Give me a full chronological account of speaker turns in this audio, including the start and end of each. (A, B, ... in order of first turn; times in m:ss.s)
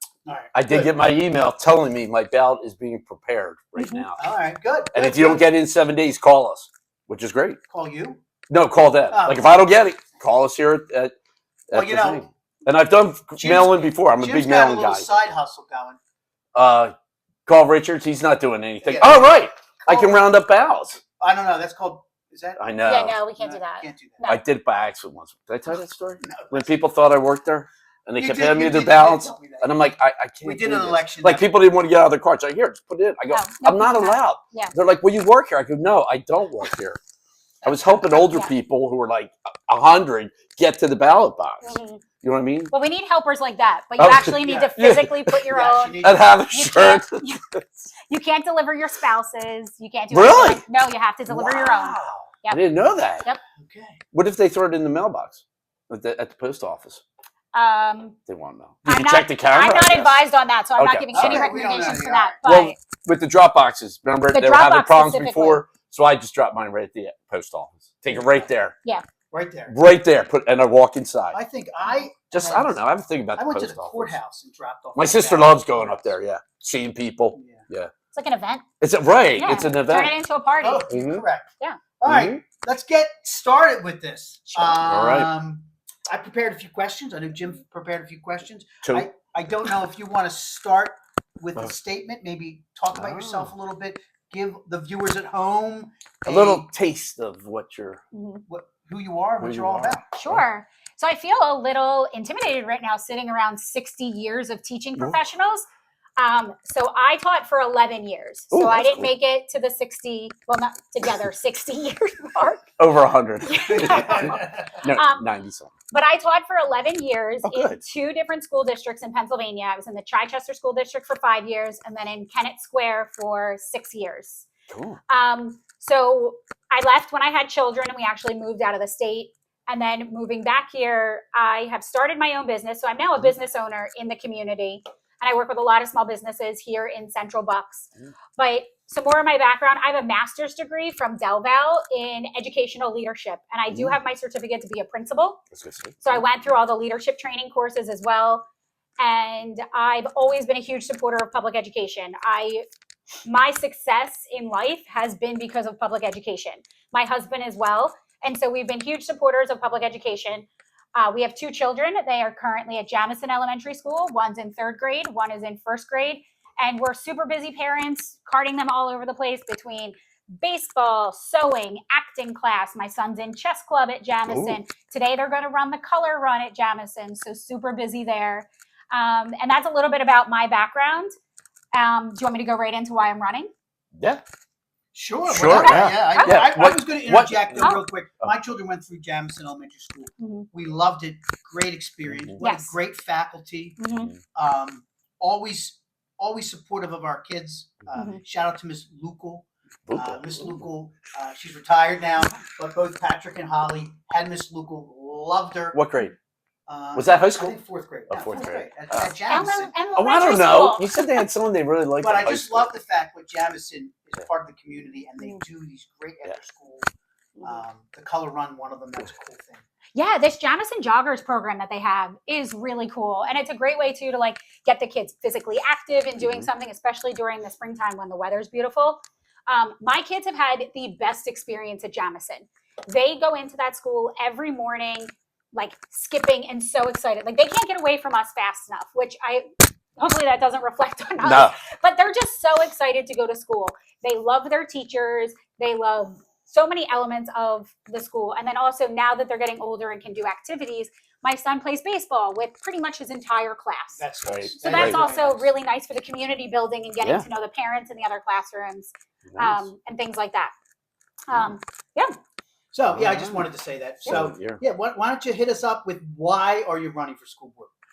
0:00.2-0:01.0 A
0:00.5-0:04.3 B
0:03.8-0:04.1 C
0:04.2-0:05.5 A
0:04.9-0:07.6 B
0:07.7-0:08.2 A
0:08.5-0:11.1 B
0:09.1-0:10.2 A
0:11.7-0:15.1 B
0:11.7-0:12.2 A
0:13.4-0:16.0 A
0:16.6-0:16.9 B
0:17.5-0:21.0 B
0:18.8-0:20.1 A
0:21.2-0:22.6 A
0:22.6-0:23.2 B
0:22.8-0:24.4 C
0:23.4-0:24.3 A
0:24.2-0:37.0 B
0:26.2-0:26.8 A
0:28.2-0:29.9 A
0:30.4-0:31.4 A
0:33.3-0:34.7 C
0:37.6-0:38.2 A
0:37.6-0:42.7 B
0:41.6-0:42.0 C
0:42.7-0:52.6 C
0:44.0-0:45.5 B
0:44.4-0:44.8 A
0:45.5-0:46.3 A
0:46.0-0:47.2 B
0:50.1-0:50.6 B
0:51.3-0:53.3 B
0:53.6-0:54.0 A
0:54.1-0:57.0 B
0:57.5-0:58.2 C
0:58.3-1:00.2 B
0:58.9-1:02.8 C
1:00.8-1:01.5 B
1:01.1-1:02.4 A
1:02.4-1:08.8 B
1:04.3-1:05.6 C
1:08.2-1:08.4 A
1:09.3-1:09.8 A
1:09.7-1:11.4 B
1:11.3-1:12.8 A
1:12.3-1:14.2 B
1:13.4-1:16.0 A
1:15.0-1:17.9 B
1:17.4-1:17.7 A
1:18.1-1:18.6 C
1:18.8-1:20.2 B
1:19.4-1:20.9 C
1:20.6-1:36.7 A
1:20.9-1:21.2 B
1:22.0-1:22.4 B
1:24.5-1:24.8 C
1:24.8-1:25.3 B
1:32.9-1:33.5 B
1:36.3-1:38.0 B
1:38.1-1:38.4 C
1:38.5-1:40.0 A
1:39.4-1:40.4 B
1:40.1-1:45.7 C
1:46.2-1:52.7 C
1:48.5-1:49.1 B
1:52.8-1:55.7 B
1:53.4-1:55.3 C
1:53.7-1:54.7 A
1:55.9-2:04.5 C
1:57.4-1:57.8 B
2:04.7-2:05.0 B
2:05.1-2:25.4 C
2:23.7-2:24.0 B
2:25.5-2:26.2 B
2:26.0-2:28.4 C
2:29.0-2:32.6 C
2:33.2-3:01.1 C
2:54.3-2:54.6 B
3:01.7-3:03.5 C
3:04.0-3:04.2 B
3:04.9-3:13.8 A
3:05.3-3:08.3 B
3:05.5-3:06.5 C
3:10.2-3:10.5 C
3:12.0-3:12.4 B
3:12.4-3:12.8 C
3:13.8-3:14.1 C
3:13.9-3:14.2 B
3:14.3-3:25.8 A
3:18.0-3:18.2 C
3:19.9-3:20.7 B
3:25.7-3:26.2 B
3:26.7-3:29.8 A
3:27.0-3:27.6 B
3:28.1-3:29.2 B
3:29.3-3:31.2 C
3:30.0-3:32.7 B
3:32.0-3:36.9 A
3:37.4-3:39.6 A
3:40.0-3:59.5 C
3:46.2-3:46.5 B
4:00.0-4:14.0 C
4:01.2-4:01.6 B
4:14.0-4:15.5 A
4:14.3-4:15.0 B
4:14.6-4:20.5 C
4:17.0-4:17.3 B
4:19.3-4:19.7 B
4:21.3-4:22.1 C
4:22.7-4:27.7 A
4:22.9-4:23.5 B
4:24.1-4:24.6 B